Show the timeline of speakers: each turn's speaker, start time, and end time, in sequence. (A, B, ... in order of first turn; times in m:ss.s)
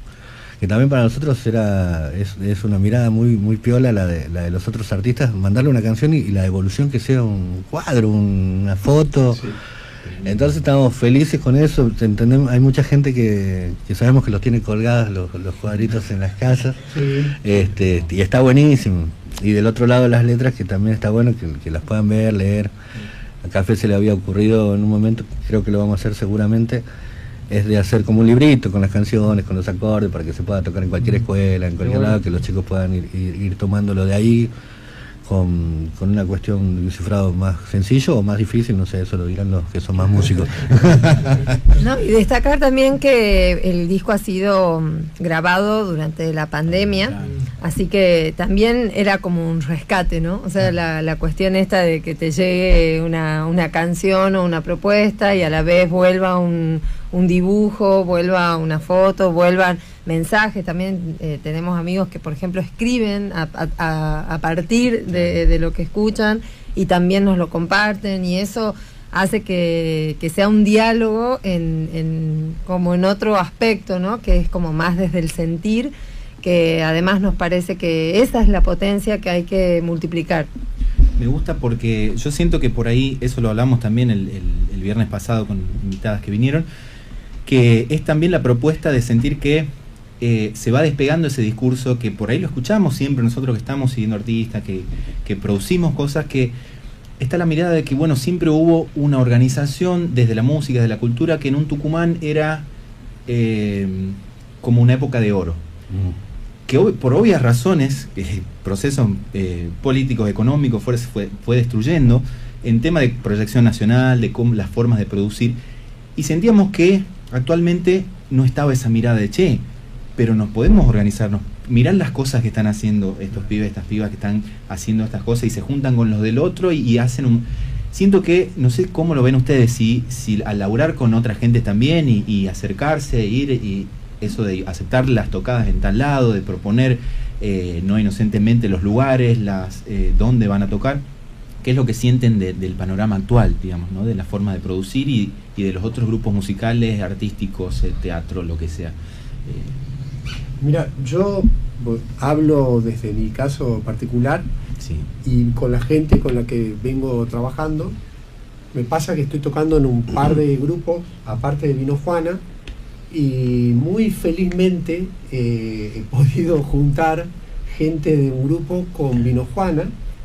0:00.6-0:09.6 A
0:10.0-0:10.5 B
0:10.2-0:22.7 A
0:16.9-0:17.4 C
0:23.4-0:26.8 A
0:27.5-0:34.5 A
0:35.3-0:41.6 A
0:41.8-1:20.5 D
0:47.0-0:47.3 B
1:05.1-1:05.4 B
1:21.2-1:26.7 B
1:27.5-1:36.5 B
1:37.2-1:42.7 B
1:43.3-1:45.6 B
1:45.9-1:46.2 A
1:46.7-1:55.6 B
1:56.2-1:59.6 B
2:00.2-2:21.0 B
2:21.6-2:29.8 B
2:30.6-2:34.5 C
2:34.8-2:35.1 B
2:35.2-2:38.0 C
2:38.7-2:42.4 C
2:43.1-2:49.9 C